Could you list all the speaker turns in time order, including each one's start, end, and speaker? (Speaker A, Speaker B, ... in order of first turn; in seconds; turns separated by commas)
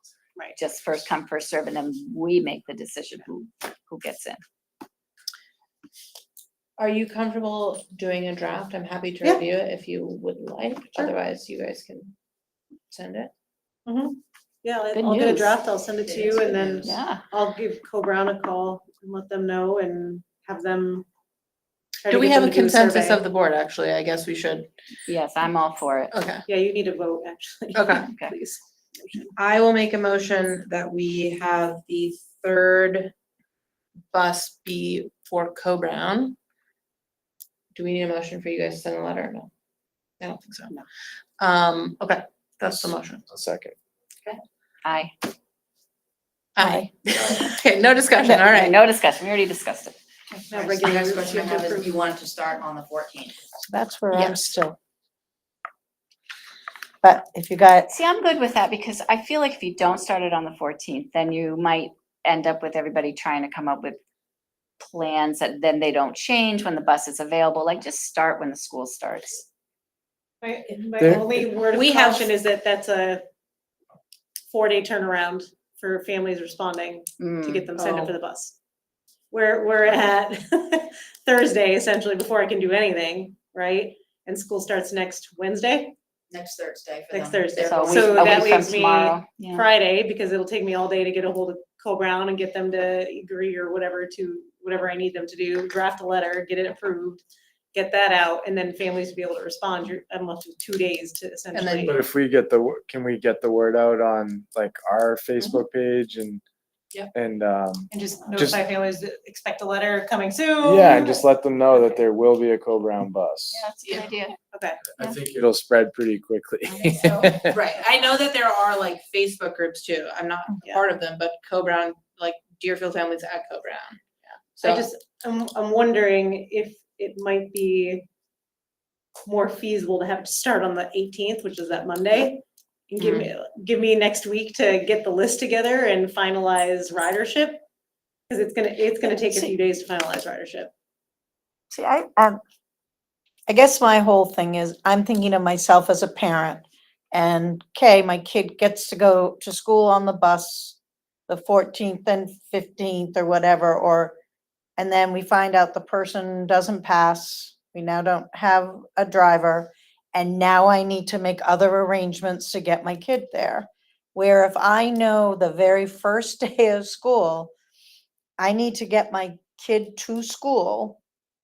Speaker A: 0.5-4.4, Speaker B: 6.8-12.1, Speaker B: 12.9-13.3, Speaker C: 13.8-21.1, Speaker A: 14.9-15.6, Speaker B: 16.1-16.9, Speaker A: 16.8-17.2, Speaker C: 22.0-23.2, Speaker B: 22.1-24.7, Speaker A: 25.1-26.1, Speaker B: 26.1-26.4, Speaker C: 26.5-29.3, Speaker B: 27.7-28.1, Speaker A: 28.1-28.3, Speaker B: 29.4-33.1, Speaker B: 34.1-36.4, Speaker B: 37.7-39.5, Speaker B: 40.2-40.8, Speaker B: 41.4-43.2, Speaker D: 43.2-43.8, Speaker A: 44.3-45.1, Speaker B: 46.5-48.8, Speaker E: 46.6-46.9, Speaker A: 48.1-50.0, Speaker F: 50.4-53.4, Speaker C: 50.5-51.9, Speaker E: 53.6-54.8, Speaker B: 54.1-54.4, Speaker E: 57.0-57.9, Speaker A: 57.9-64.0, Speaker A: 64.8-69.4, Speaker C: 70.4-73.2, Speaker D: 71.0-71.3, Speaker B: 71.5-72.3, Speaker C: 74.5-78.5, Speaker A: 77.2-77.7, Speaker B: 77.8-78.1, Speaker C: 79.3-85.9, Speaker F: 86.3-88.8, Speaker C: 87.1-97.2, Speaker A: 87.6-89.7, Speaker C: 97.7-101.9, Speaker B: 101.5-102.0, Speaker D: 101.8-106.4, Speaker D: 107.1-108.6, Speaker C: 107.9-111.2, Speaker D: 110.6-113.6, Speaker A: 113.5-114.4, Speaker C: 114.5-114.8, Speaker D: 114.9-117.5, Speaker B: 117.0-124.9, Speaker C: 124.6-128.1, Speaker C: 129.2-137.6, Speaker B: 133.0-133.3, Speaker C: 138.3-140.7, Speaker E: 141.7-142.4, Speaker E: 143.5-150.8, Speaker E: 151.3-154.2, Speaker E: 154.8-167.5, Speaker E: 168.4-171.0